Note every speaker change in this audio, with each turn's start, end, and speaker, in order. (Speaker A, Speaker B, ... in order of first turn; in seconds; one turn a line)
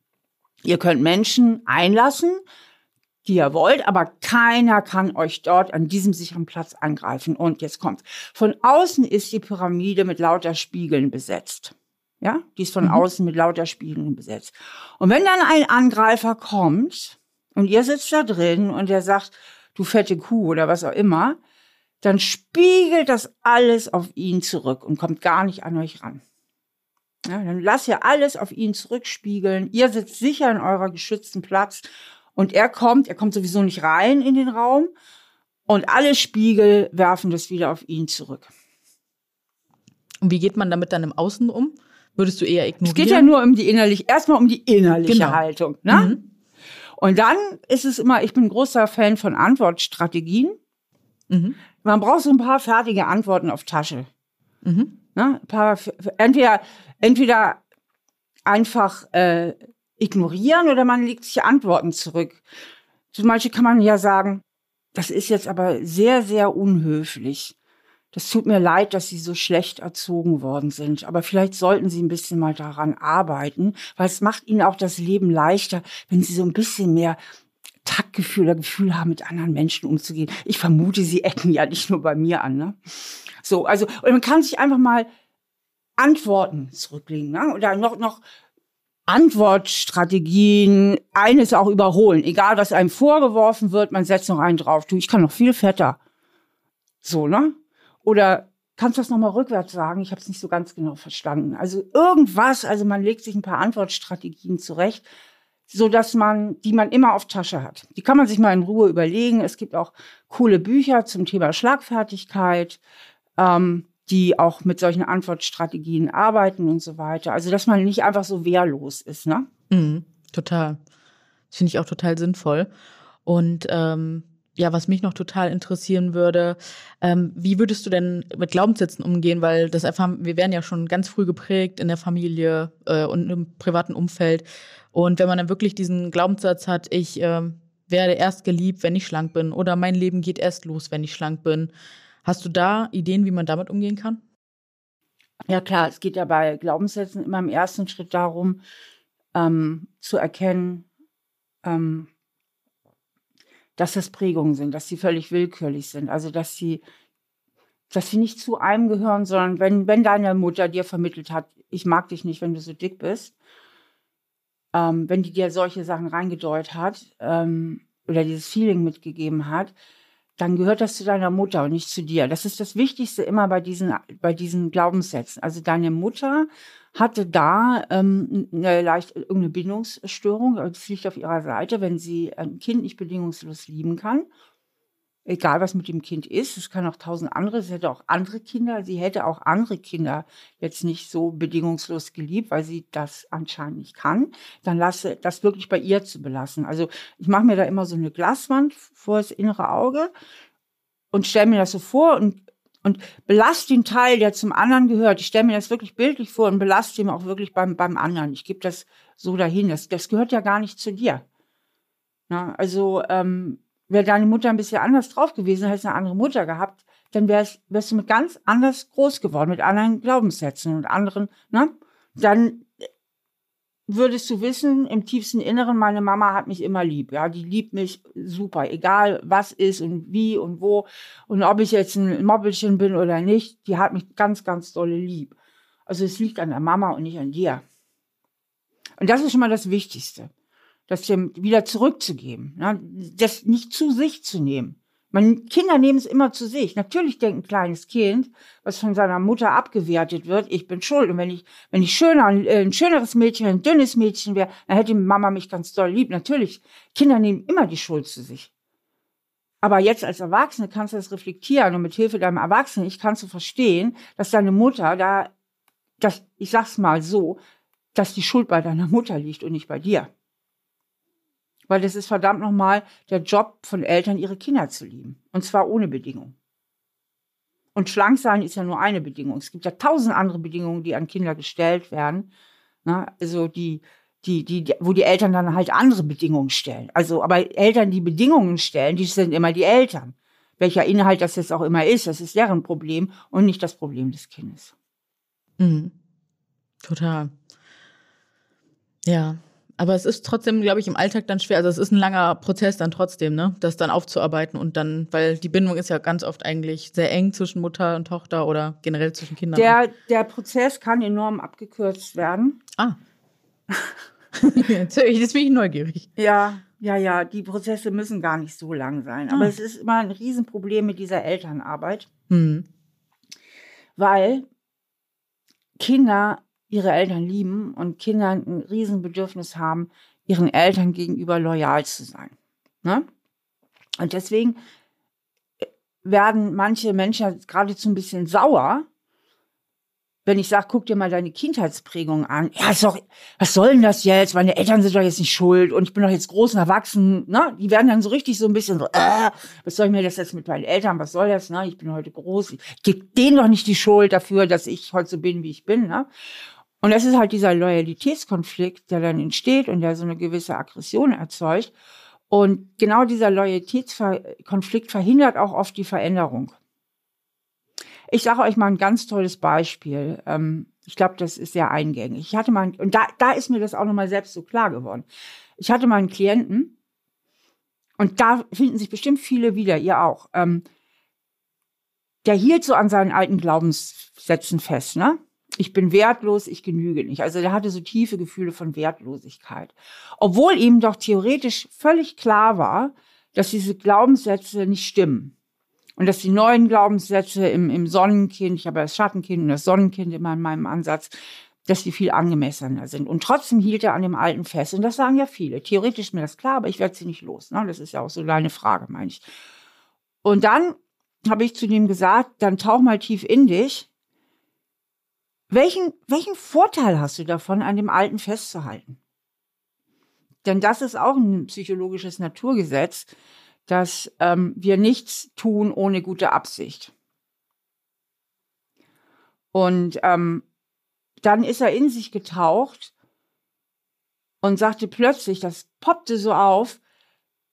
Speaker A: 0.6-2.4
Speaker A: 3.2-21.4
Speaker A: 22.0-26.2
Speaker A: 27.2-34.9
Speaker A: 35.7-38.5
Speaker B: 40.2-43.3
Speaker A: 42.8-46.1
Speaker B: 45.1-46.2
Speaker A: 47.0-50.5
Speaker B: 51.3-51.6
Speaker A: 51.8-54.1
Speaker B: 54.6-54.9
Speaker A: 55.1-57.6
Speaker A: 58.5-62.4
Speaker A: 63.1-64.4
Speaker A: 64.9-67.5
Speaker A: 68.1-77.2
Speaker A: 77.8-82.8
Speaker A: 83.4-85.1
Speaker A: 86.0-88.2
Speaker A: 89.1-96.0
Speaker A: 97.0-105.1
Speaker A: 105.7-112.8
Speaker A: 113.4-119.5
Speaker B: 119.7-120.8
Speaker B: 121.5-122.7
Speaker B: 123.2-141.7
Speaker B: 142.2-144.2
Speaker A: 145.5-148.6
Speaker A: 149.3-150.9
Speaker A: 151.6-152.1
Speaker A: 153.8-156.8
Speaker A: 157.9-163.3
Speaker A: 164.7-169.7
Speaker A: 170.4-184.3
Speaker A: 185.2-200.1
Speaker A: 201.1-211.2
Speaker A: 212.3-222.9
Speaker A: 223.9-235.3
Speaker A: 235.9-237.6
Speaker A: 239.0-240.3
Speaker A: 240.9-258.5
Speaker A: 259.6-265.3
Speaker A: 266.0-267.4
Speaker A: 267.9-270.1
Speaker A: 271.7-276.3
Speaker A: 277.7-282.3
Speaker A: 282.8-294.7
Speaker B: 295.6-295.9
Speaker B: 296.8-297.3
Speaker B: 299.1-309.8
Speaker A: 309.5-312.6
Speaker B: 314.4-316.1
Speaker A: 316.2-322.1
Speaker B: 319.3-319.5
Speaker B: 322.3-322.7
Speaker A: 324.0-324.4
Speaker A: 325.8-333.1
Speaker A: 334.0-334.6
Speaker A: 335.6-338.9
Speaker A: 340.2-356.1
Speaker A: 356.8-361.7
Speaker A: 362.3-366.5
Speaker A: 368.1-375.1
Speaker A: 375.6-376.7
Speaker A: 378.0-380.6
Speaker A: 382.2-395.3
Speaker A: 396.0-401.1
Speaker A: 401.6-409.2
Speaker A: 410.2-413.9
Speaker A: 415.5-419.0
Speaker A: 420.4-423.1
Speaker A: 423.7-426.9
Speaker A: 429.5-430.4
Speaker A: 431.2-432.9
Speaker A: 434.4-436.8